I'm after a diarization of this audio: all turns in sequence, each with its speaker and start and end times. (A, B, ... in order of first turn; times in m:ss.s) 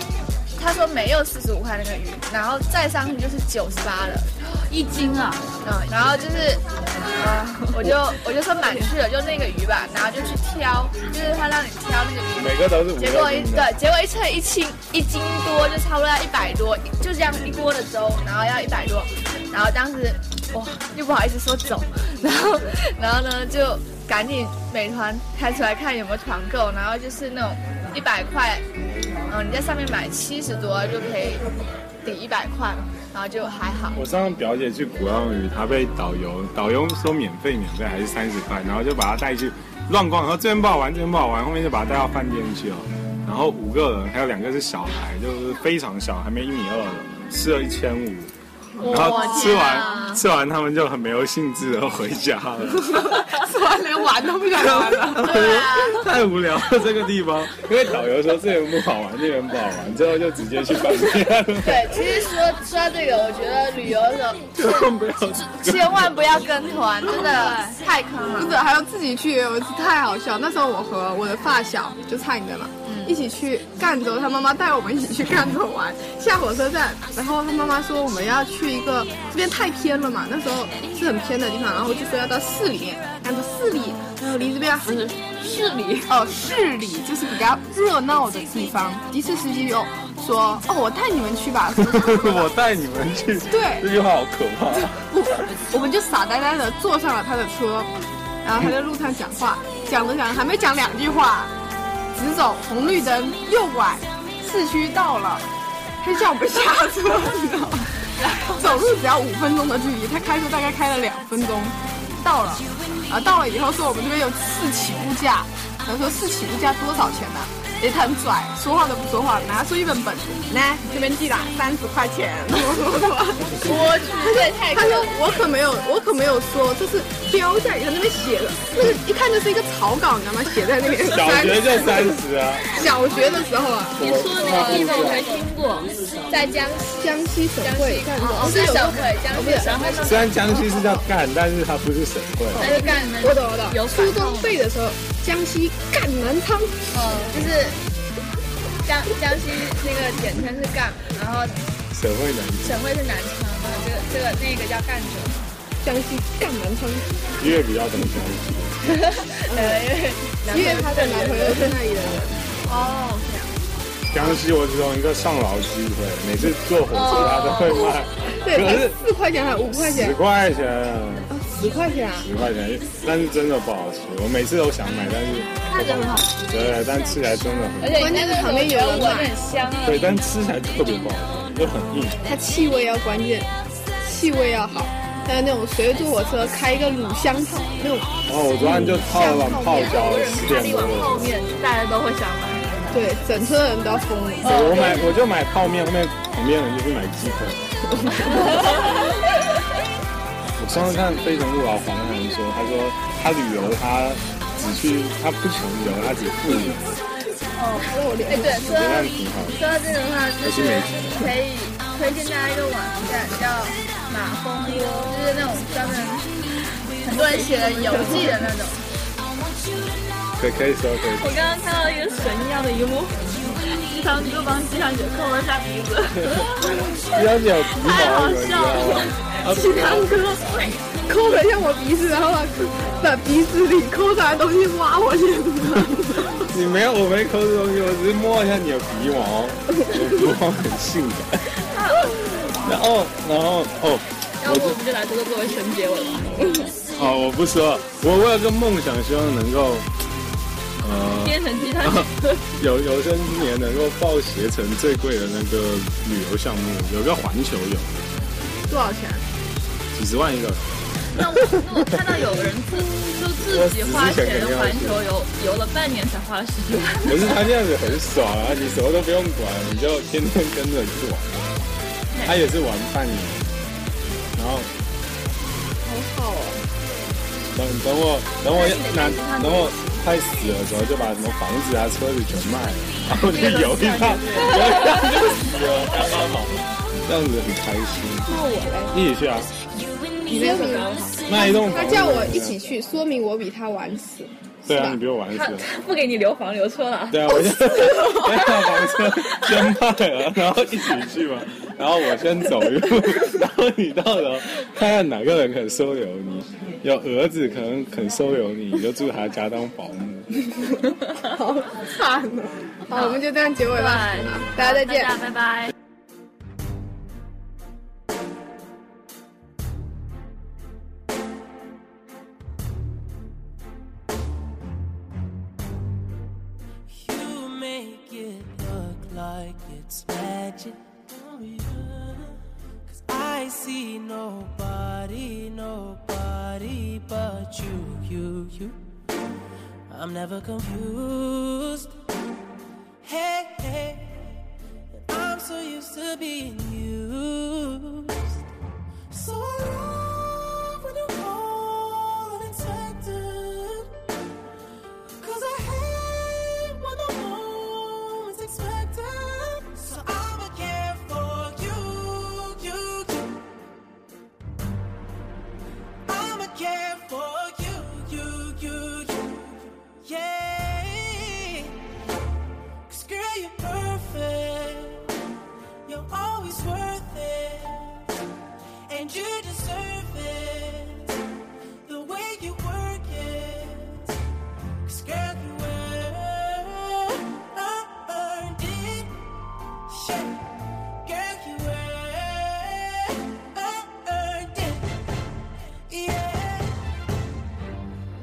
0:00.6-0:04.3 A
0:04.4-0:05.4 B
0:05.6-0:06.6 A
0:07.1-0:28.6 A
0:12.4-0:13.7 C
0:29.3-0:31.4 A
0:32.0-0:34.0 A
0:33.9-0:48.3 C
0:48.8-0:49.8 D
0:48.8-0:50.2 A
0:48.8-0:53.2 C
0:52.9-0:55.4 D
0:54.5-1:02.2 C
0:55.2-0:56.1 A
1:01.6-1:04.9 A
1:04.6-1:06.4 C
1:05.5-1:08.6 A
1:07.1-1:07.8 B
1:08.3-1:25.0 D
1:12.8-1:13.2 A
1:24.8-1:26.1 B
1:26.1-1:32.5 D
1:31.8-1:35.2 C
1:33.5-1:33.9 D
1:34.8-1:37.9 D
1:38.4-1:41.5 D
1:42.1-1:45.4 D
1:46.0-2:14.0 D
1:48.2-1:48.8 B
2:03.6-2:05.2 A
2:11.0-2:12.8 C
2:14.0-2:15.3 C
2:14.0-2:15.9 B
2:14.3-2:15.5 A
2:16.3-2:20.8 A
2:17.0-2:19.7 D
2:18.2-2:19.0 B
2:19.5-2:20.8 B
2:20.0-2:22.8 C
2:22.5-2:27.5 D
2:22.6-2:23.4 A
2:22.6-2:24.6 B
2:26.9-2:27.8 A
2:28.8-2:31.6 A
2:31.9-2:32.8 C
2:32.6-2:35.4 A
2:35.8-2:37.3 D
2:37.4-2:38.9 C
2:38.8-2:41.8 A
2:39.5-2:39.8 D
2:40.4-2:42.3 D
2:42.7-2:43.5 A
2:44.1-2:49.0 C
2:46.9-2:48.0 A
2:47.1-2:50.2 D
2:49.7-2:51.3 C
2:51.3-2:52.3 D
2:52.2-2:58.1 C
2:55.7-2:56.3 B
2:57.8-3:00.1 A
2:57.9-2:59.3 D
2:59.8-3:02.4 C
3:02.2-3:03.5 D
3:04.0-3:10.1 D
3:08.3-3:11.3 C
3:09.8-3:12.6 B
3:10.4-3:11.9 A
3:12.9-3:14.9 D
3:14.4-3:15.1 A
3:14.4-3:18.3 C
3:18.0-3:18.9 D
3:20.6-3:26.8 C
3:27.6-3:36.3 A
3:27.8-3:28.8 D
3:28.4-3:29.6 C
3:30.4-3:31.4 C
3:37.0-3:38.8 A
3:37.0-3:38.4 B
3:38.0-3:38.3 D
3:40.4-3:41.4 C
3:41.2-3:46.9 B
3:47.1-3:50.7 C
3:47.7-3:50.7 B
3:49.5-3:50.4 D
3:51.0-3:56.4 D
3:56.3-4:01.5 C
4:01.7-4:02.3 B
4:02.6-4:04.8 C
4:04.4-4:06.5 B
4:06.3-4:09.9 C
4:10.8-4:18.1 C
4:11.2-4:12.6 B
4:18.7-4:19.2 D
4:19.9-4:22.0 C
4:21.1-4:27.4 B
4:23.4-4:25.0 C
4:27.0-4:31.7 C
4:32.1-4:32.4 B
4:32.2-4:33.6 C
4:34.4-4:34.7 C
4:35.8-4:36.6 D
4:37.5-4:48.4 C
4:38.5-4:40.0 B
4:43.2-4:45.2 B
4:48.3-4:48.9 D
4:48.9-4:49.5 C
4:50.2-4:51.2 B
4:50.3-4:55.0 D
4:51.2-4:52.7 C
4:54.6-4:55.6 C
4:55.3-4:59.5 B
4:57.1-5:10.6 C
5:11.1-5:15.2 D
5:12.9-5:15.7 B
5:26.9-5:38.8 E
5:39.9-5:41.9 E
5:43.0-5:44.4 E
5:44.9-5:48.4 E
5:49.1-5:54.0 E
5:55.2-6:03.5 E
6:06.1-6:11.7 E
6:12.9-6:15.2 E
6:15.8-6:18.2 E
6:18.9-6:21.2 E
6:21.8-6:24.2 E
6:24.8-6:29.2 E
6:29.9-6:30.4 E
6:31.0-6:35.0 E
6:35.9-6:36.8 E